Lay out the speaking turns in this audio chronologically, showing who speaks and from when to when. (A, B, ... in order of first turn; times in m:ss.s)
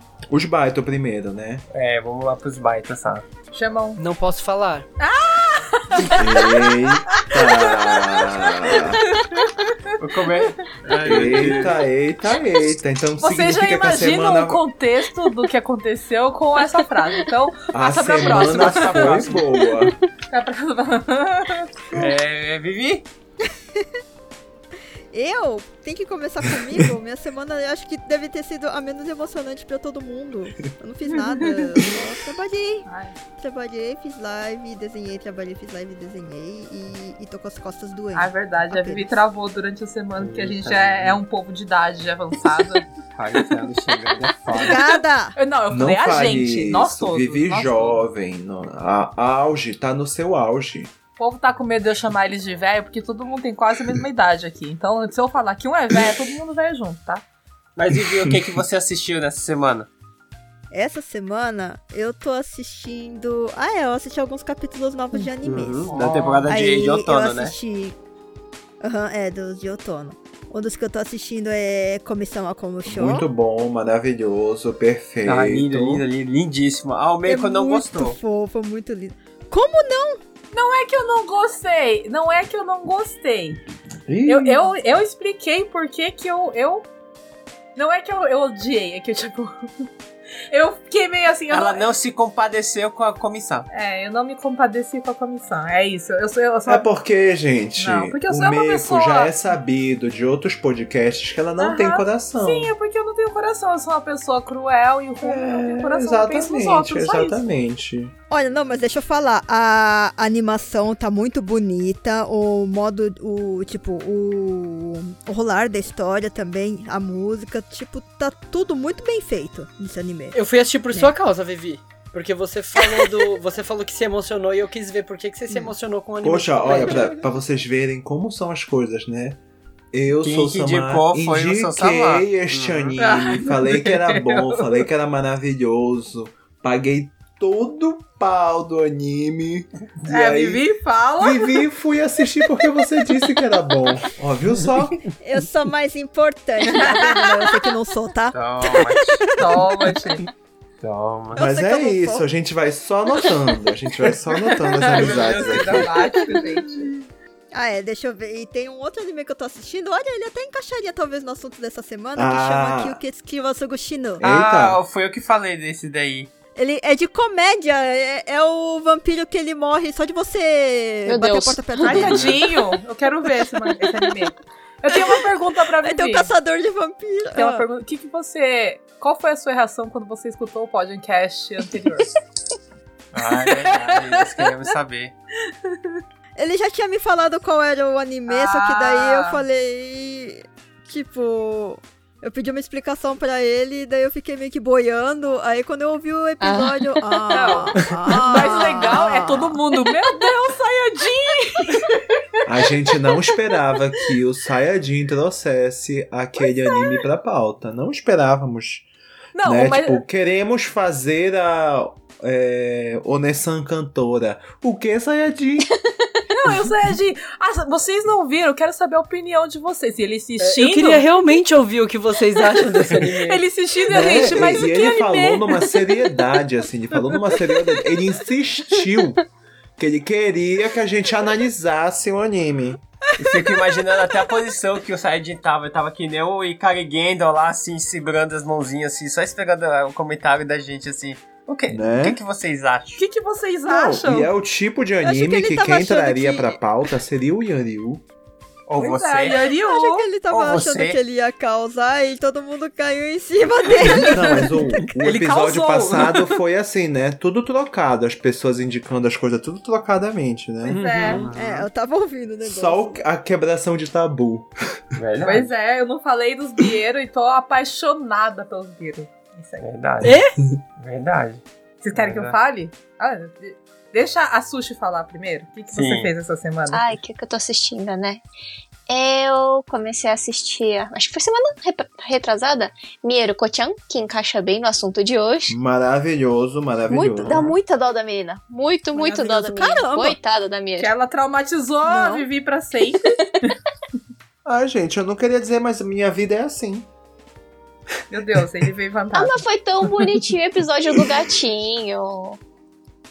0:00.3-0:01.6 A
0:01.7-0:03.3 B
0:03.5-0:04.0 C
0:04.0-0:04.9 D
0:05.0-0:09.9 C
0:06.2-0:09.1 A
0:10.0-0:11.8 B
0:11.0-0:14.6 A
0:11.1-0:11.4 C
0:13.2-0:19.4 C
0:17.7-0:20.0 A
0:18.2-0:19.5 B
0:20.3-0:22.1 C
0:21.9-0:23.1 B
0:25.1-0:32.9 E
0:31.1-0:31.8 C
0:32.9-0:33.2 C
0:33.4-0:39.1 E
0:38.1-0:42.9 C
0:40.2-0:41.2 B
0:43.1-0:44.8 B
0:44.6-0:45.3 E
0:44.6-0:48.0 C
0:45.7-0:50.9 A
0:51.2-0:57.2 C
0:57.8-0:59.9 B
0:57.9-0:58.5 A
1:00.7-1:06.0 E
1:05.4-1:07.5 B
1:05.9-1:06.5 C
1:06.5-1:08.0 E
1:08.8-1:13.3 E
1:12.8-1:16.0 A
1:15.2-1:18.2 B
1:17.2-1:20.2 E
1:20.5-1:23.6 C
1:24.1-1:24.7 A
1:24.3-1:26.9 C
1:27.8-1:29.7 C
1:30.5-1:31.8 C
1:31.5-1:33.7 B
1:33.7-1:36.9 C
1:36.7-1:42.7 A
1:37.8-1:39.3 C
1:41.6-1:47.4 C
1:45.2-1:48.1 A
1:48.3-2:00.4 E
2:00.3-2:07.2 D
2:06.2-2:09.4 A
2:09.9-2:20.6 A
2:10.2-2:13.0 B
2:13.0-2:14.9 C
2:20.1-2:21.6 C
2:21.2-2:25.0 A
2:25.2-2:29.7 E
2:26.7-2:27.5 C
2:28.3-2:29.4 B
2:29.4-2:30.3 C
2:30.8-2:31.4 B
2:31.3-2:32.2 E
2:31.4-2:35.9 A
2:34.6-2:36.9 C
2:34.8-2:35.8 B
2:37.5-2:44.2 E
2:42.2-2:43.0 A
2:44.2-2:44.8 A
2:44.2-2:46.3 B
2:46.6-2:52.4 E
2:51.1-2:52.0 F
2:51.8-2:56.3 C
2:51.9-2:52.4 B
2:55.8-2:57.6 E
2:57.4-3:02.1 C
3:03.1-3:05.1 B
3:03.3-3:04.5 C
3:05.5-3:06.0 C
3:06.4-3:19.6 E
3:08.3-3:09.4 C
3:16.4-3:17.5 F
3:17.3-3:22.0 C
3:22.4-3:28.9 A
3:29.4-3:30.0 C
3:29.4-3:35.7 A
3:36.3-3:41.0 C
3:36.5-3:36.7 A
3:40.4-3:43.5 D
3:42.5-3:45.9 C
3:43.9-3:49.2 A
3:49.8-3:52.8 A
3:53.2-4:03.0 B
4:01.7-4:02.2 A
4:03.0-4:04.3 C
4:03.7-4:08.0 A
4:05.0-4:06.6 E
4:08.7-4:09.5 B
4:08.8-4:10.1 C
4:09.4-4:14.8 E
4:10.3-4:11.0 B
4:13.9-4:14.4 C
4:14.0-4:21.3 A
4:15.0-4:16.4 C
4:20.6-4:21.2 C
4:21.0-4:21.7 B
4:21.3-4:23.0 E
4:22.4-4:24.5 A
4:25.0-4:25.5 B
4:25.2-4:29.7 C
4:29.6-4:30.2 B
4:30.0-4:30.4 D
4:30.8-4:32.4 B
4:31.8-4:36.8 C
4:35.7-4:36.1 B
4:36.7-4:38.2 F
4:38.9-4:45.6 F
4:45.5-4:47.5 A
4:46.9-4:50.9 F
4:49.0-4:50.2 E
4:50.8-4:53.5 C
4:51.9-4:52.3 E
4:54.4-4:56.9 A
4:58.1-5:00.0 C
4:59.1-5:02.4 F